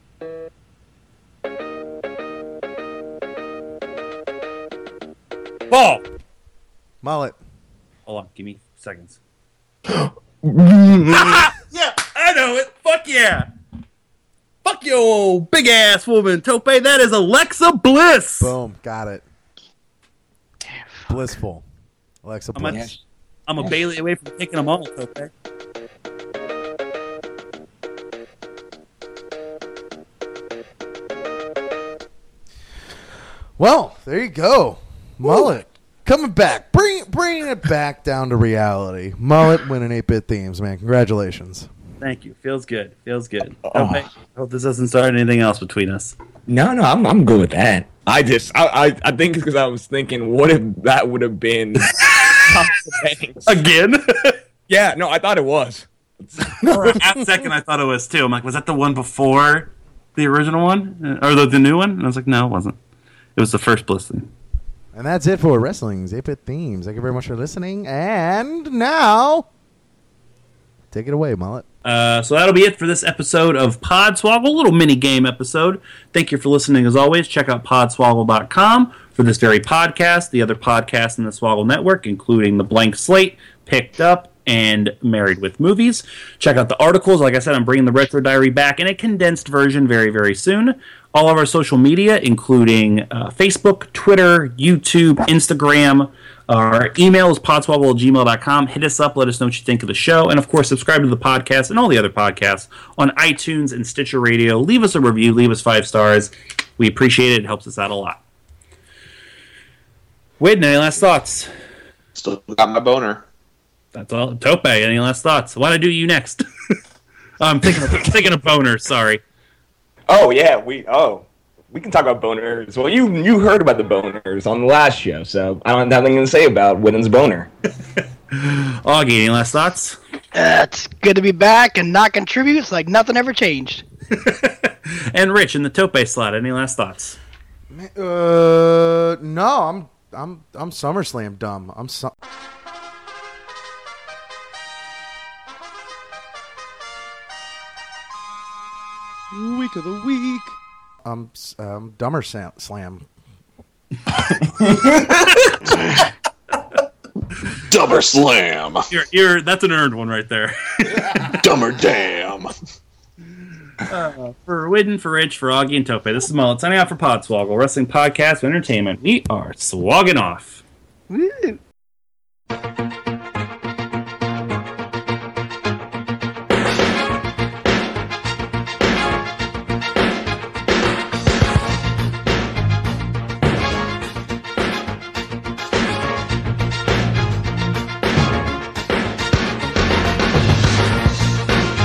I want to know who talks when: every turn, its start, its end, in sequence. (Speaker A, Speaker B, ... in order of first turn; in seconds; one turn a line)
Speaker A: 5.7-6.0
Speaker B: 7.0-7.4
Speaker A: 8.1-9.2
Speaker C: 9.9-11.5
Speaker A: 11.1-13.5
Speaker A: 14.6-18.5
Speaker B: 18.4-19.2
Speaker D: 20.6-21.2
Speaker B: 21.1-21.6
Speaker B: 22.2-22.9
Speaker A: 22.5-25.3
Speaker B: 33.6-41.7
Speaker A: 42.0-46.1
Speaker C: 43.6-44.1
Speaker C: 46.5-53.6
Speaker A: 52.0-52.4
Speaker A: 53.5-54.4
Speaker C: 54.7-57.0
Speaker A: 56.6-62.8
Speaker A: 63.4-64.3
Speaker B: 64.9-69.5
Speaker B: 70.9-71.6
Speaker A: 71.8-108.2
Speaker A: 110.4-111.5
Speaker E: 112.2-113.2
Speaker A: 113.9-116.4
Speaker A: 117.4-119.2
Speaker C: 120.1-127.5
Speaker A: 128.3-130.0
Speaker D: 130.3-133.8
Speaker A: 134.1-137.2
Speaker B: 137.7-142.1
Speaker B: 149.3-153.1
Speaker C: 154.3-155.5
Speaker E: 157.6-158.9
Speaker A: 158.9-161.4
Speaker E: 161.2-162.5
Speaker A: 163.8-170.6
Speaker D: 171.1-171.6